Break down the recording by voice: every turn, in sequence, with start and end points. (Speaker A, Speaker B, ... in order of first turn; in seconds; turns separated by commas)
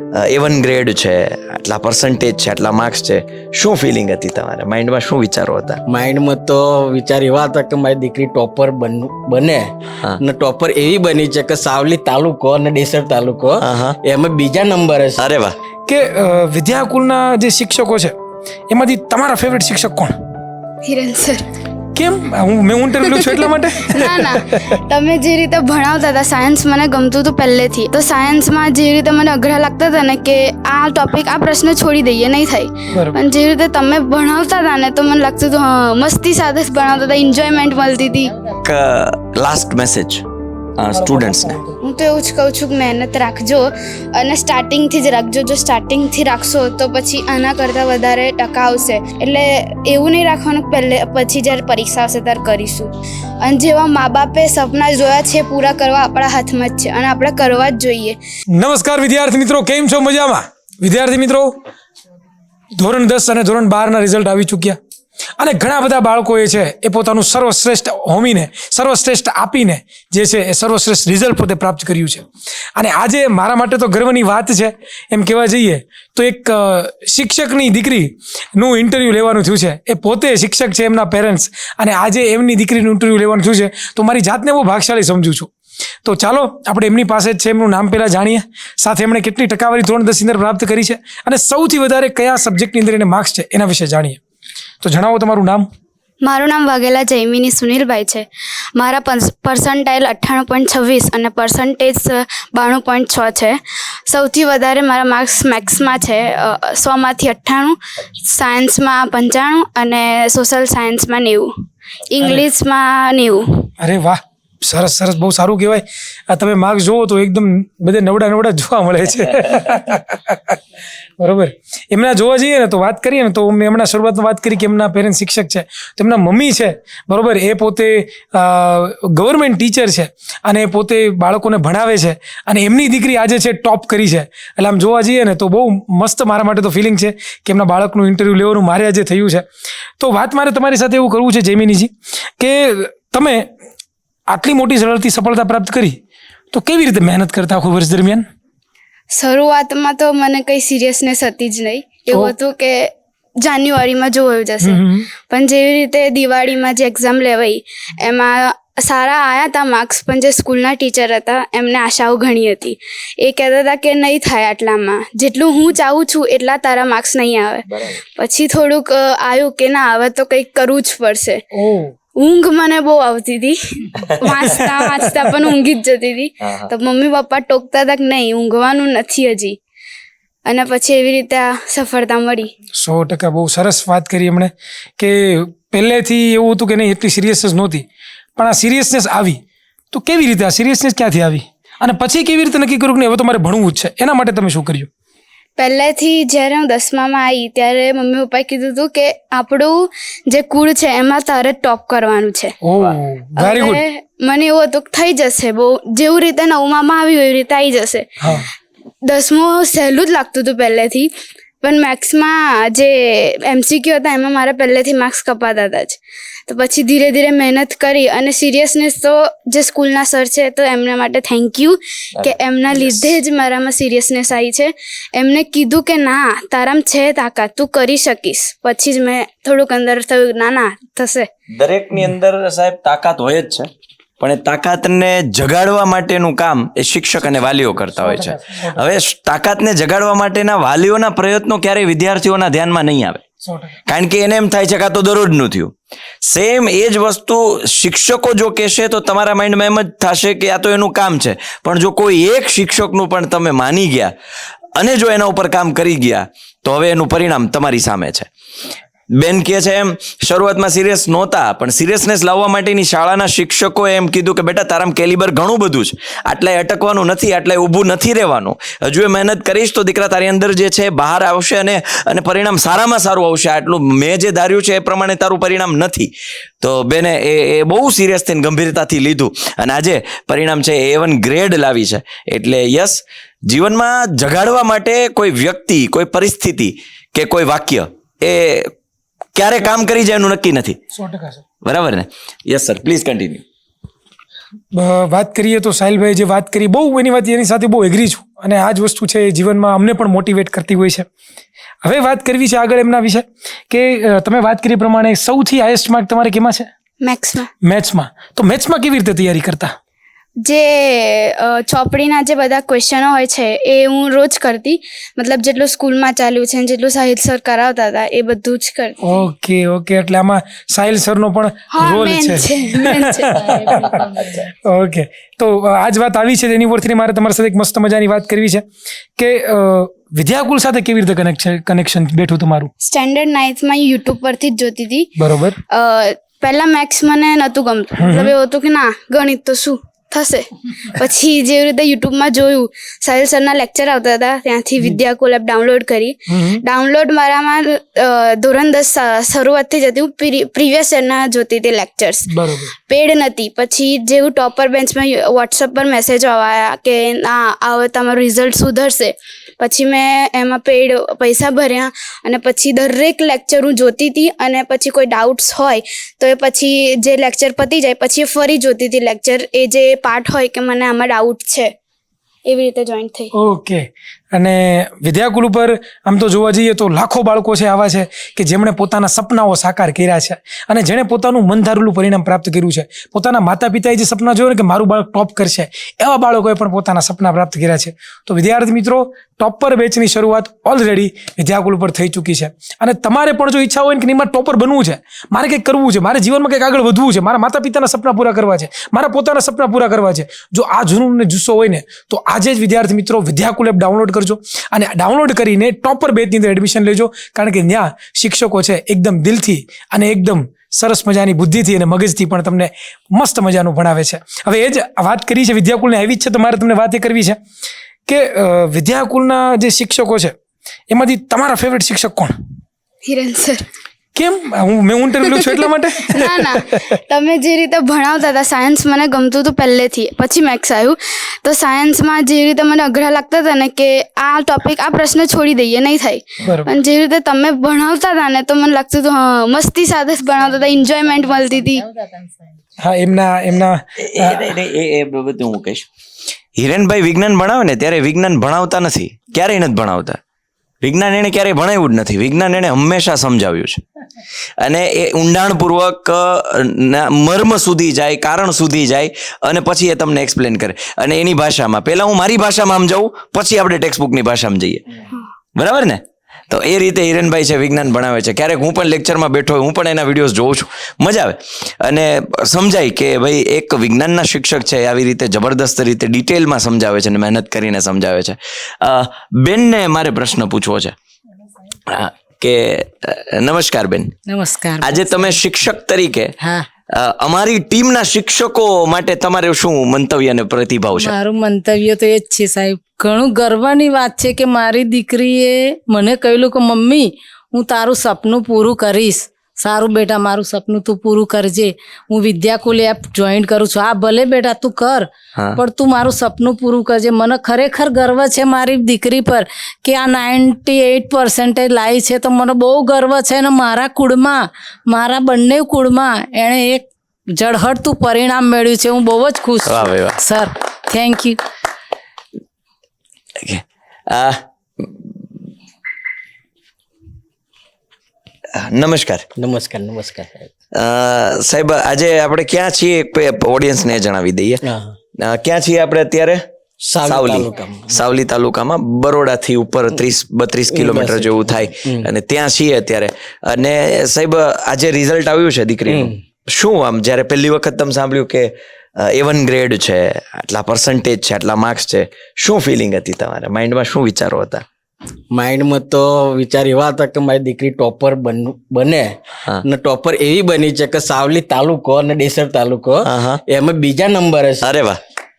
Speaker A: 0.1-5.8, Speaker B: 5.9-15.2, Speaker A: 13.6-14.0, Speaker A: 15.2-15.6, Speaker C: 15.9-18.1, Speaker C: 18.7-20.1, Speaker D: 20.8-21.5, Speaker C: 21.9-24.8, Speaker D: 23.1-38.3, Speaker C: 32.9-33.2, Speaker A: 38.6-40.2, Speaker A: 40.8-41.6, Speaker C: 40.9-41.8, Speaker D: 41.8-58.2, Speaker C: 58.6-61.5, Speaker C: 62.8-64.8, Speaker C: 65.4-85.5, Speaker C: 86.0-94.2, Speaker C: 94.8-95.7, Speaker D: 96.2-111.5, Speaker D: 112.1-113.5, Speaker C: 113.8-120.6, Speaker C: 121.2-139.4, Speaker C: 140.0-143.5, Speaker C: 144.3-146.0, Speaker C: 146.5-148.2, Speaker D: 149.1-171.4, Speaker C: 154.6-155.1, Speaker A: 167.7-168.0, Speaker C: 171.5-171.9, Speaker D: 172.2-179.6, Speaker C: 174.4-175.2, Speaker A: 176.4-176.7, Speaker D: 180.4-182.5, Speaker C: 182.8-187.8, Speaker C: 188.4-189.4, Speaker C: 189.9-194.9, Speaker D: 195.6-202.5, Speaker C: 202.6-203.8, Speaker D: 203.4-208.4, Speaker D: 209.1-231.3, Speaker A: 222.2-223.1, Speaker A: 231.5-233.7, Speaker A: 234.2-243.2, Speaker C: 237.9-238.8, Speaker C: 243.4-243.8, Speaker A: 243.9-254.1, Speaker A: 254.8-258.3, Speaker A: 259.1-288.7, Speaker A: 289.3-290.8, Speaker C: 290.9-291.4, Speaker A: 291.6-293.4, Speaker C: 294.7-301.1, Speaker C: 301.8-306.7, Speaker D: 307.0-307.5, Speaker C: 307.6-309.7, Speaker D: 310.4-319.2, Speaker C: 319.0-323.8, Speaker D: 321.7-323.9, Speaker E: 323.4-324.4, Speaker C: 324.6-328.6, Speaker C: 329.2-332.7, Speaker D: 332.8-335.1, Speaker C: 335.2-335.6, Speaker D: 335.7-352.3, Speaker C: 338.0-338.3, Speaker C: 346.3-346.6, Speaker C: 352.3-352.7, Speaker D: 352.9-371.7, Speaker D: 372.4-373.3, Speaker C: 373.3-417.4, Speaker C: 418.1-420.3, Speaker C: 420.9-422.3, Speaker D: 423.0-423.6, Speaker C: 424.1-426.9, Speaker D: 426.1-441.8, Speaker C: 436.4-436.7, Speaker E: 440.4-442.5, Speaker C: 442.8-444.5, Speaker A: 444.0-445.9, Speaker A: 446.6-450.2, Speaker A: 450.8-453.8, Speaker A: 454.6-464.8, Speaker A: 465.6-480.9, Speaker A: 481.9-484.1, Speaker E: 484.3-485.3, Speaker A: 484.8-486.3, Speaker E: 486.4-486.6, Speaker A: 486.9-491.1, Speaker E: 490.9-521.4, Speaker A: 519.6-520.2, Speaker A: 523.4-525.0, Speaker A: 528.6-529.2, Speaker B: 529.4-530.5, Speaker A: 530.7-534.6, Speaker B: 534.6-534.9, Speaker A: 535.2-536.4, Speaker B: 536.8-538.0, Speaker A: 537.0-554.6, Speaker B: 540.7-542.1, Speaker B: 545.9-546.2, Speaker B: 555.3-564.7, Speaker A: 563.0-563.4, Speaker A: 564.6-565.0